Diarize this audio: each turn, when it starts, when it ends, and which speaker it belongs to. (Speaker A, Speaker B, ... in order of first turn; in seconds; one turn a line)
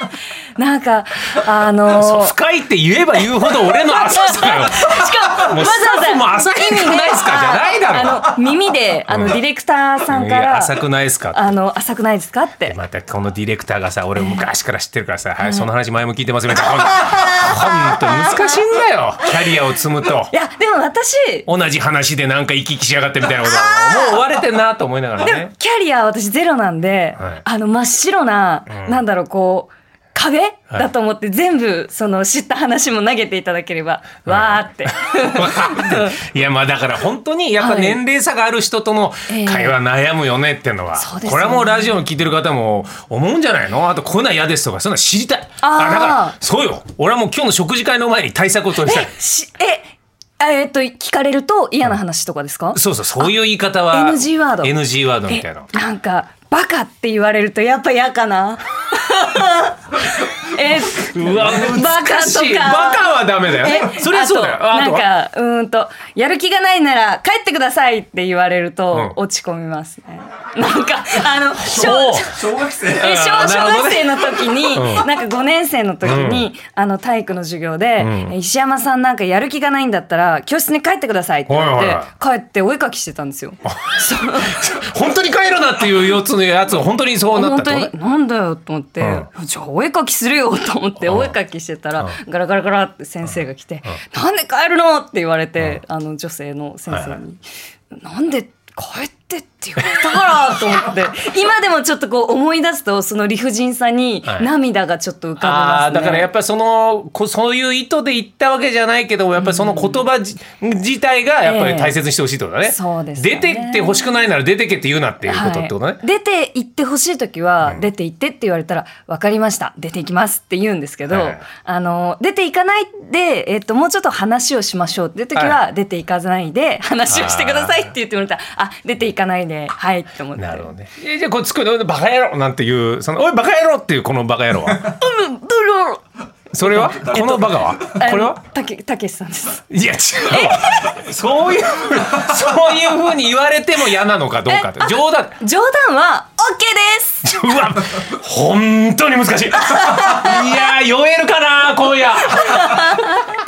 Speaker A: 0.6-2.3
Speaker B: 1.9-8.3
Speaker A: 3.6-10.7
Speaker B: 9.1-9.4
Speaker B: 10.1-11.4
Speaker A: 11.3-12.8
Speaker B: 12.7-20.3
Speaker A: 14.2-14.4
Speaker A: 15.4-15.7
Speaker A: 17.0-18.5
Speaker A: 20.3-21.5
Speaker B: 21.5-25.5
Speaker A: 23.3-24.3
Speaker A: 25.2-36.2
Speaker B: 27.2-27.4
Speaker B: 28.7-29.0
Speaker B: 34.2-49.1
Speaker A: 37.6-38.0
Speaker A: 39.3-39.8
Speaker A: 41.0-42.0
Speaker A: 45.6-46.4
Speaker A: 48.8-53.3
Speaker B: 52.7-55.7
Speaker A: 53.9-54.8
Speaker A: 55.3-84.6
Speaker B: 60.8-65.1
Speaker B: 71.6-75.1
Speaker B: 76.0-76.5
Speaker B: 78.0-78.3
Speaker B: 81.5-82.1
Speaker B: 83.6-87.9
Speaker A: 87.3-97.4
Speaker B: 89.0-89.3
Speaker B: 91.0-91.3
Speaker B: 96.9-97.2
Speaker A: 97.9-106.3
Speaker B: 105.4-116.0
Speaker A: 109.4-110.0
Speaker A: 111.4-111.9
Speaker A: 112.6-114.1
Speaker A: 115.2-130.7
Speaker B: 121.1-121.4
Speaker B: 125.3-125.6
Speaker B: 127.0-127.9
Speaker B: 130.3-135.0
Speaker A: 134.9-136.0
Speaker B: 136.5-138.4
Speaker A: 136.6-139.7
Speaker B: 139.7-145.4
Speaker A: 140.3-140.9
Speaker A: 144.5-147.4
Speaker B: 147.2-153.1
Speaker A: 149.8-150.4
Speaker A: 152.4-153.2